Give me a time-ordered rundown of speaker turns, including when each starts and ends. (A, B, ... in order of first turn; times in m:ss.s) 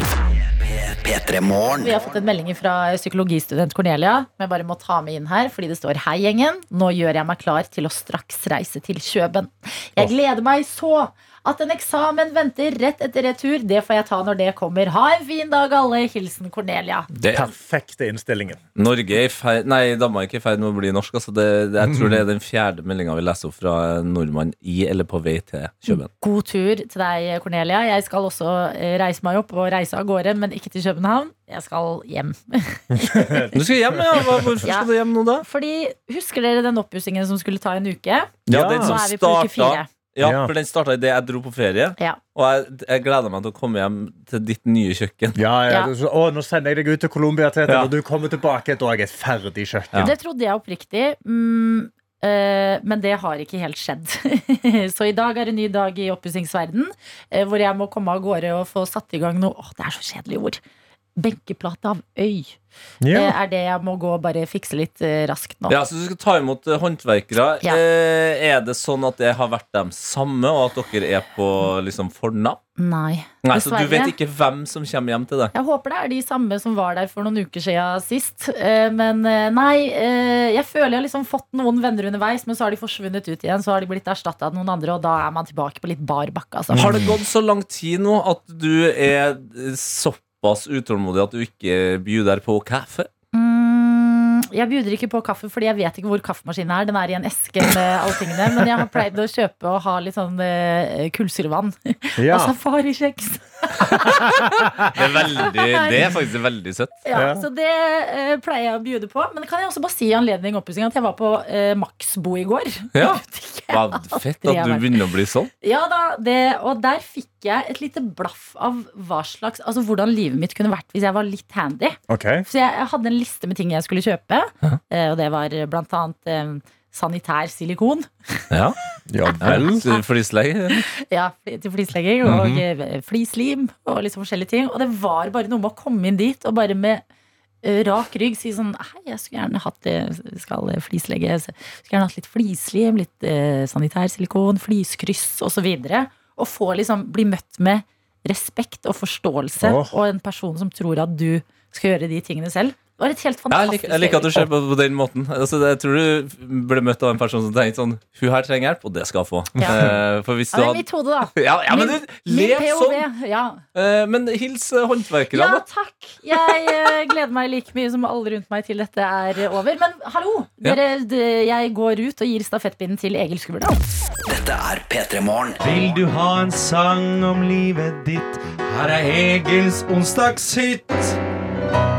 0:00.3-0:02.1 A
0:01.8-0:17.1 B
0:17.2-0:18.6 C
0:17.2-0:17.5 D
0:18.8-0:26.1 D
0:21.8-0:22.2 C
0:25.9-0:33.5 B
0:33.0-0:34.5 C
0:33.6-0:35.5 D
0:34.6-0:34.9 B
0:35.4-0:39.9 B
0:38.5-0:45.4 D
0:38.5-0:39.0 C
0:40.2-0:40.5 C
0:45.4-0:50.1 C
0:50.0-1:00.6 B
1:01.2-1:02.6 B
1:03.0-1:03.4 C
1:03.1-1:05.8 B
1:05.7-1:12.6 D
1:12.8-1:14.1 B
1:13.4-1:15.5 D
1:15.5-1:27.0 B
1:26.7-1:27.2 C
1:26.8-1:33.1 D
1:33.3-1:44.5 B
1:42.2-1:42.5 C
1:44.4-1:44.9 C
1:44.9-1:47.0 D
1:45.4-1:46.1 B
1:47.0-1:54.9 B
1:47.1-1:47.4 C
1:53.0-1:55.5 D
1:55.6-2:08.5 B
2:02.1-2:02.5 C
2:08.5-2:08.8 D
2:09.1-2:09.8 C
2:09.2-2:10.0 B
2:09.4-2:10.8 D
2:10.7-2:17.0 B
2:12.2-2:12.6 C
2:17.6-2:34.5 B
2:29.6-2:29.9 C
2:33.5-2:43.1 D
2:39.6-2:39.8 B
2:39.7-2:40.0 C
2:40.5-2:43.6 B
2:43.8-2:45.6 D
2:45.3-2:53.8 B
2:54.3-2:56.1 A
2:55.6-3:01.2 E